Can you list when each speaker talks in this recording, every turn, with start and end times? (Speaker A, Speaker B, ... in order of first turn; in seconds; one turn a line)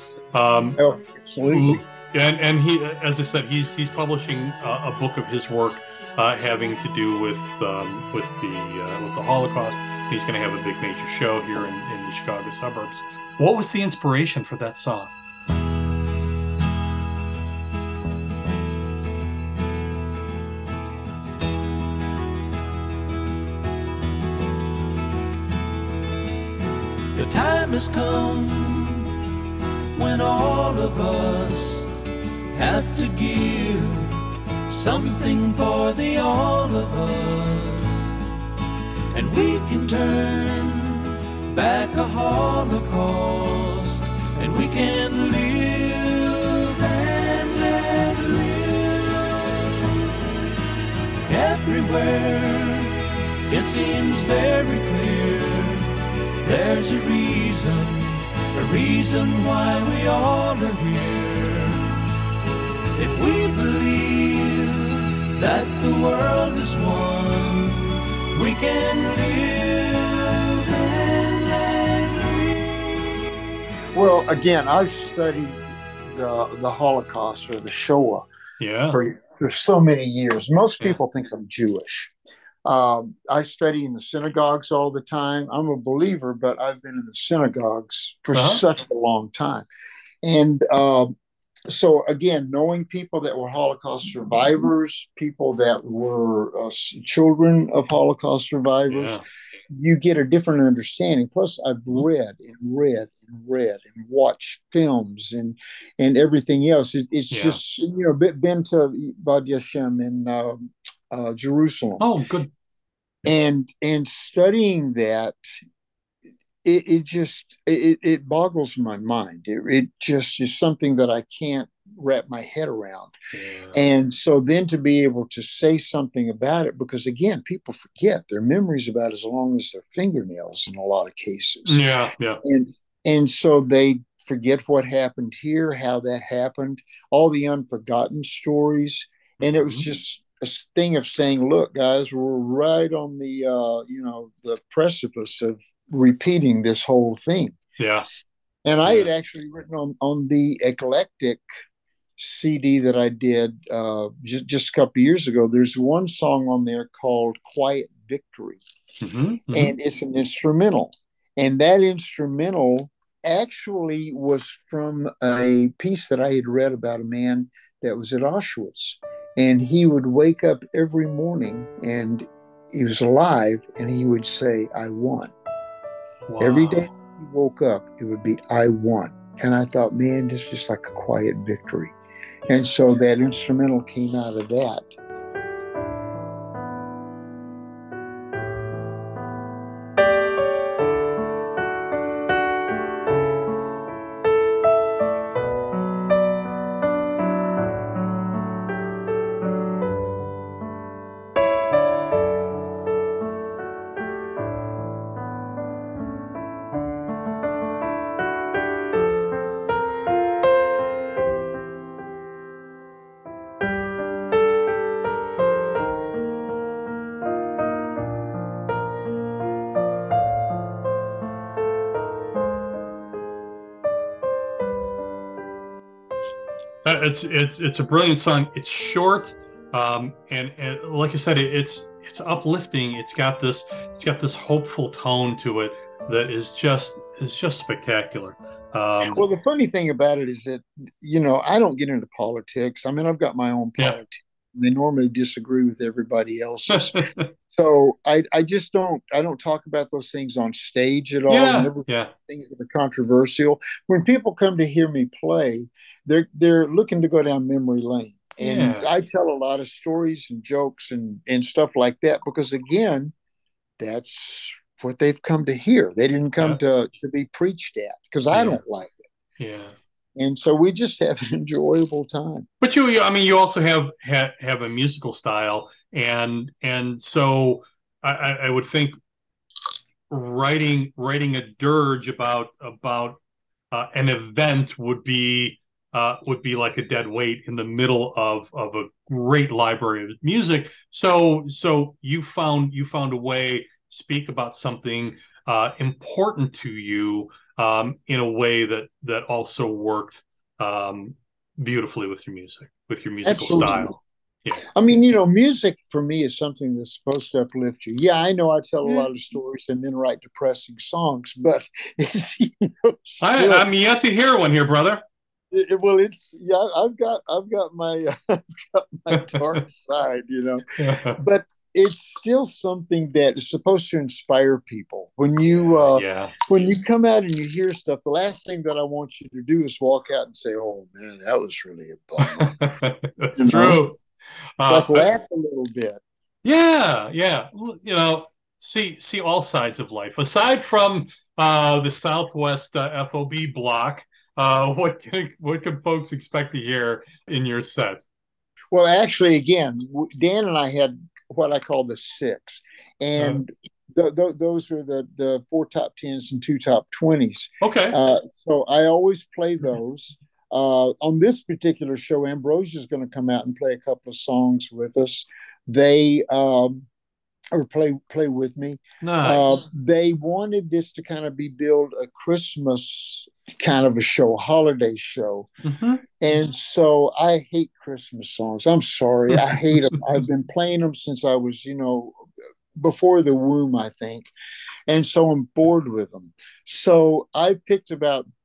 Speaker A: 0.3-0.8
Speaker B: 0.8-1.8
Speaker A: 1.5-15.1
Speaker C: 27.1-29.1
Speaker C: 29.9-31.9
Speaker C: 32.5-34.2
Speaker C: 34.7-38.1
Speaker C: 39.1-49.5
Speaker C: 51.3-62.0
Speaker C: 63.0-72.9
Speaker B: 73.9-78.3
Speaker A: 78.6-79.0
Speaker B: 78.9-82.1
Speaker B: 82.7-89.7
Speaker A: 88.3-88.6
Speaker B: 90.2-91.1
Speaker B: 91.7-112.1
Speaker A: 98.9-99.2
Speaker A: 107.3-107.6
Speaker A: 112.0-112.5
Speaker B: 113.2-115.4
Speaker B: 116.6-123.1
Speaker A: 123.3-123.8
Speaker B: 123.7-131.8
Speaker A: 131.7-132.4
Speaker B: 132.4-147.6
Speaker A: 139.4-139.9
Speaker A: 147.8-148.1
Speaker B: 148.7-151.4
Speaker A: 148.8-149.1
Speaker B: 152.2-158.6
Speaker A: 159.0-159.8
Speaker B: 159.5-175.3
Speaker A: 176.3-176.9
Speaker B: 176.4-181.9
Speaker B: 182.5-184.9
Speaker A: 226.8-239.2
Speaker B: 239.0-247.0
Speaker A: 246.7-247.3
Speaker B: 247.5-263.1
Speaker A: 251.3-252.1
Speaker A: 258.4-258.9
Speaker B: 263.8-269.1
Speaker A: 268.3-268.6
Speaker A: 269.4-269.8
Speaker B: 270.2-272.5
Speaker A: 272.6-279.0
Speaker A: 280.1-283.2
Speaker A: 283.7-304.6
Speaker B: 303.2-304.0
Speaker B: 304.7-313.7
Speaker A: 313.2-315.0
Speaker B: 315.5-320.6
Speaker A: 319.1-319.6
Speaker A: 320.8-321.2
Speaker B: 321.2-332.6
Speaker A: 325.4-326.3
Speaker A: 332.2-334.0
Speaker B: 333.4-333.8
Speaker A: 334.6-335.1
Speaker B: 334.7-336.0
Speaker A: 336.4-348.0
Speaker B: 348.7-366.9
Speaker A: 357.6-358.0
Speaker B: 367.5-375.5
Speaker A: 369.0-369.5
Speaker A: 375.6-376.0
Speaker B: 376.2-384.3
Speaker A: 379.3-379.9
Speaker B: 384.9-388.3